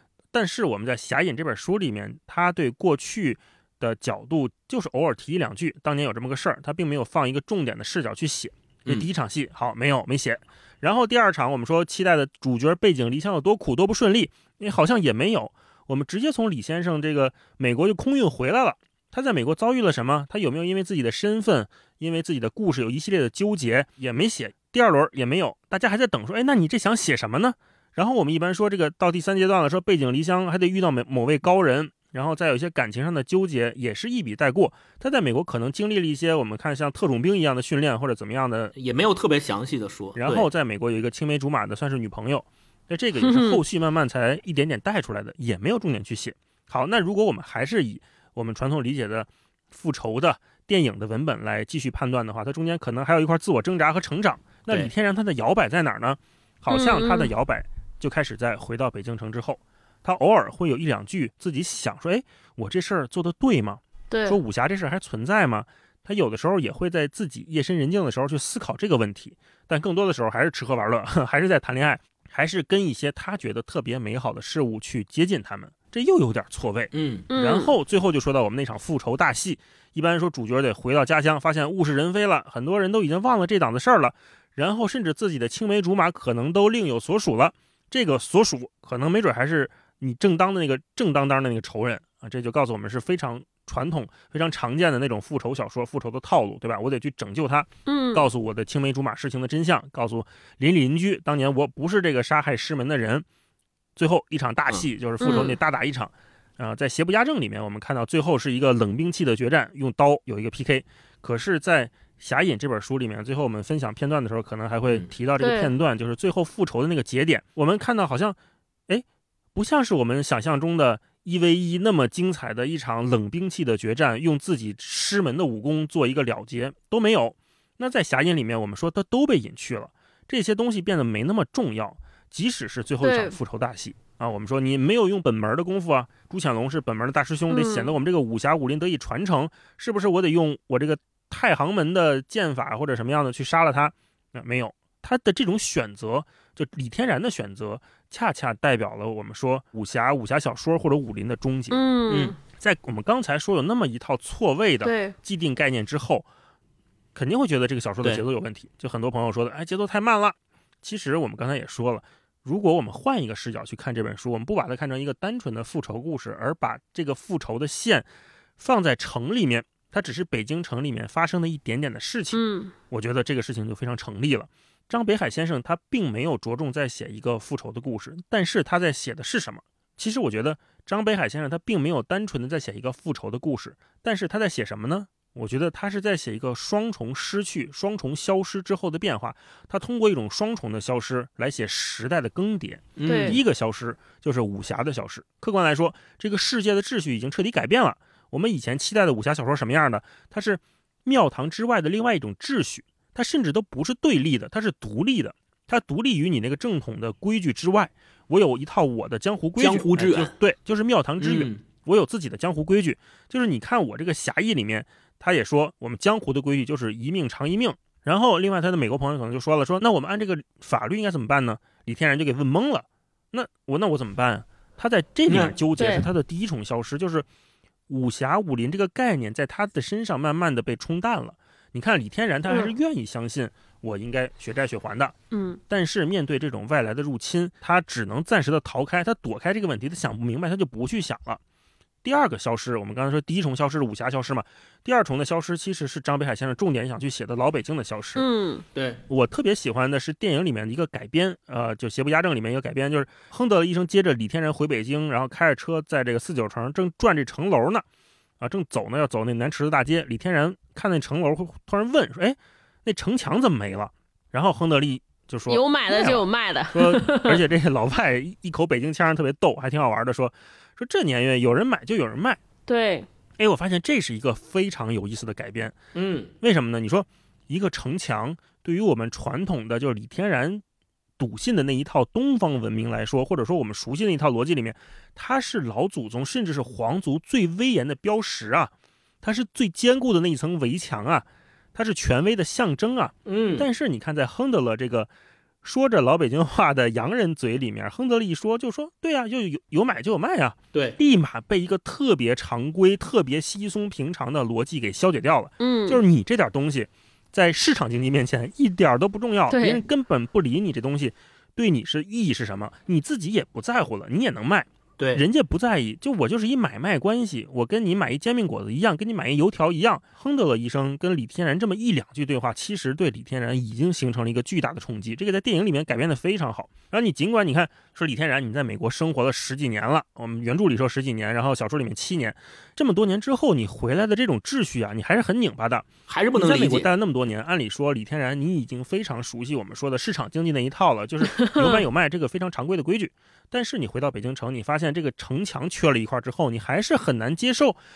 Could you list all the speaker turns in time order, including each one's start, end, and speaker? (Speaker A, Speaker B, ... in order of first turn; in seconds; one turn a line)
Speaker A: 0.3-38.8
Speaker B: 38.8-40.5
Speaker A: 40.2-103.2
Speaker C: 43.2-43.6
Speaker C: 56.7-57.3
Speaker C: 64.1-64.4
Speaker B: 76.9-77.3
Speaker C: 77.3-77.7
Speaker C: 97.9-98.2
Speaker A: 104.0-118.4
Speaker B: 104.7-105.5
Speaker C: 105.2-105.5
Speaker C: 115.4-115.7
Speaker A: 119.5-151.8
Speaker C: 133.0-133.3
Speaker C: 137.5-137.9
Speaker C: 151.7-152.3
Speaker B: 152.1-152.3
Speaker A: 152.4-156.3
Speaker C: 154.8-155.1
Speaker A: 157.2-168.1
Speaker A: 168.6-227.2
Speaker C: 172.3-172.7
Speaker B: 193.0-193.4
Speaker C: 193.1-193.4
Speaker B: 209.6-210.3
Speaker B: 211.2-211.6
Speaker B: 225.3-225.6
Speaker C: 225.8-226.1
Speaker A: 227.9-235.1
Speaker C: 235.3-235.6
Speaker A: 235.7-241.4
Speaker A: 242.0-248.2
Speaker C: 248.2-248.6
Speaker A: 249.1-257.8
Speaker A: 258.4-272.4
Speaker C: 265.5-267.4
Speaker C: 272.7-273.1
Speaker A: 273.4-275.8
Speaker B: 275.9-276.3
Speaker A: 276.4-280.6
Speaker A: 281.2-288.7
Speaker A: 289.2-295.1
Speaker B: 293.3-293.7
Speaker A: 295.6-347.8
Speaker C: 305.6-306.0
Speaker C: 309.5-309.8
Speaker B: 315.0-315.2
Speaker B: 336.1-336.9
Speaker C: 341.4-341.9